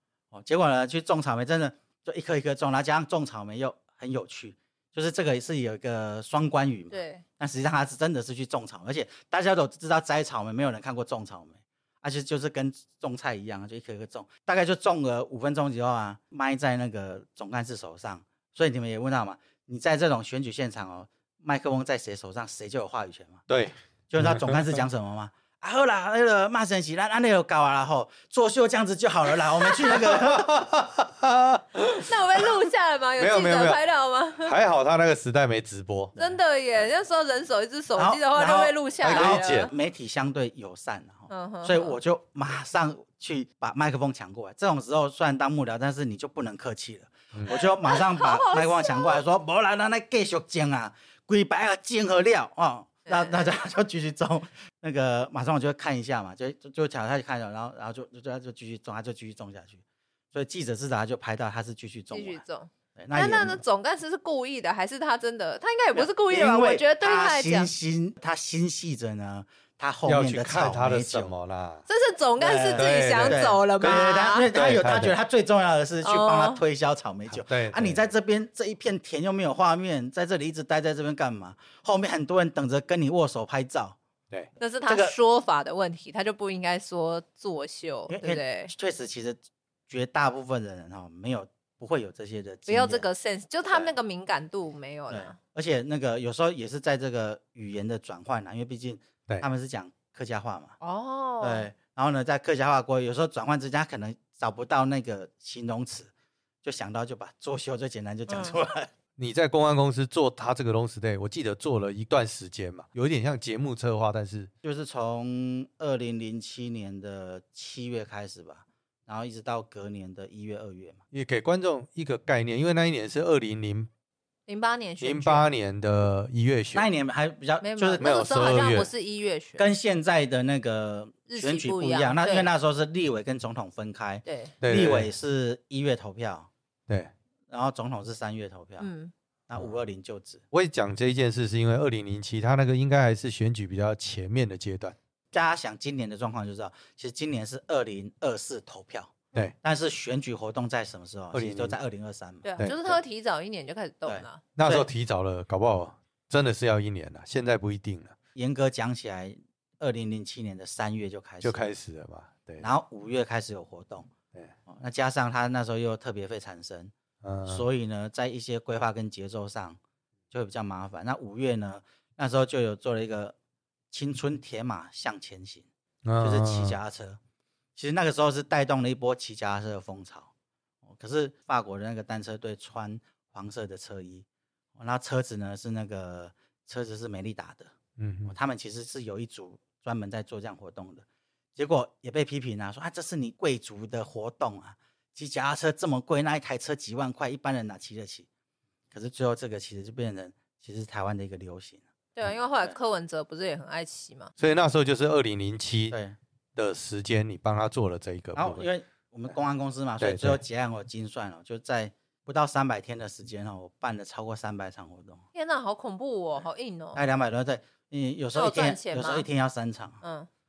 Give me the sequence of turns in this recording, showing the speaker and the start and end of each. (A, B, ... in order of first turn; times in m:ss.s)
0:00.3-0:23.4 A
0:06.9-0:07.2 B
0:23.5-0:24.8 C
0:24.1-0:30.6 A
0:29.9-0:32.5 C
0:31.9-0:34.6 B
0:33.2-0:33.8 C
0:34.4-0:36.2 C
0:36.2-0:39.7 B
0:38.0-0:59.8 A
0:39.0-0:39.7 C
0:41.3-0:42.0 B
0:47.5-0:49.2 B
0:53.1-0:53.5 B
1:00.3-1:02.4 A
1:02.1-1:07.7 B
1:03.0-1:03.6 A
1:05.9-1:11.3 A
1:10.0-1:11.8 C
1:11.9-1:14.5 B
1:12.4-1:24.0 A
1:12.8-1:15.1 C
1:16.0-1:16.6 B
1:17.3-1:18.0 C
1:24.6-1:28.7 B
1:24.8-1:25.1 A
1:28.1-1:33.0 A
1:32.7-1:35.4 B
1:33.6-1:33.9 A
1:35.1-1:40.8 A
1:40.8-1:41.7 B
1:41.4-1:46.1 A
1:46.6-1:48.9 A
1:48.3-1:48.6 B
1:49.2-1:54.5 C
1:54.6-2:01.0 A
2:01.1-2:03.9 C
2:04.5-2:05.5 B
2:05.0-2:06.9 C
2:06.7-2:08.1 A
2:07.6-2:09.7 B
2:08.0-2:08.9 C
2:09.6-2:16.5 A
2:11.3-2:12.5 B
2:14.2-2:14.6 B
2:14.6-2:15.1 C
2:17.5-2:18.9 A
2:18.8-2:19.1 B
2:19.5-2:20.4 A
2:20.5-2:25.0 C
2:25.3-2:33.0 A
2:31.3-2:31.8 C
2:32.4-2:34.4 B
2:34.0-2:34.9 A
2:34.6-2:38.1 C
2:38.3-2:41.6 A
2:41.4-2:42.7 C
2:42.6-2:44.1 A
2:44.7-2:46.9 A
2:47.2-2:47.6 C
2:47.4-2:49.8 A
2:50.3-2:53.3 A
2:53.9-2:55.7 A
2:56.0-2:56.8 C
2:56.2-2:57.2 A
2:57.8-3:00.3 A
3:00.8-3:04.2 A
3:04.8-3:07.7 A
3:08.0-3:08.4 C
3:08.2-3:11.0 A
3:11.6-3:18.3 A
3:18.9-3:22.8 A
3:22.1-3:24.3 B
3:24.4-3:26.0 C
3:25.9-3:26.2 A
3:26.6-3:28.7 C
3:28.3-3:35.2 A
3:30.0-3:30.4 C
3:35.3-3:37.0 B
3:36.9-3:40.0 A
3:38.3-3:39.3 B
3:40.0-3:40.3 B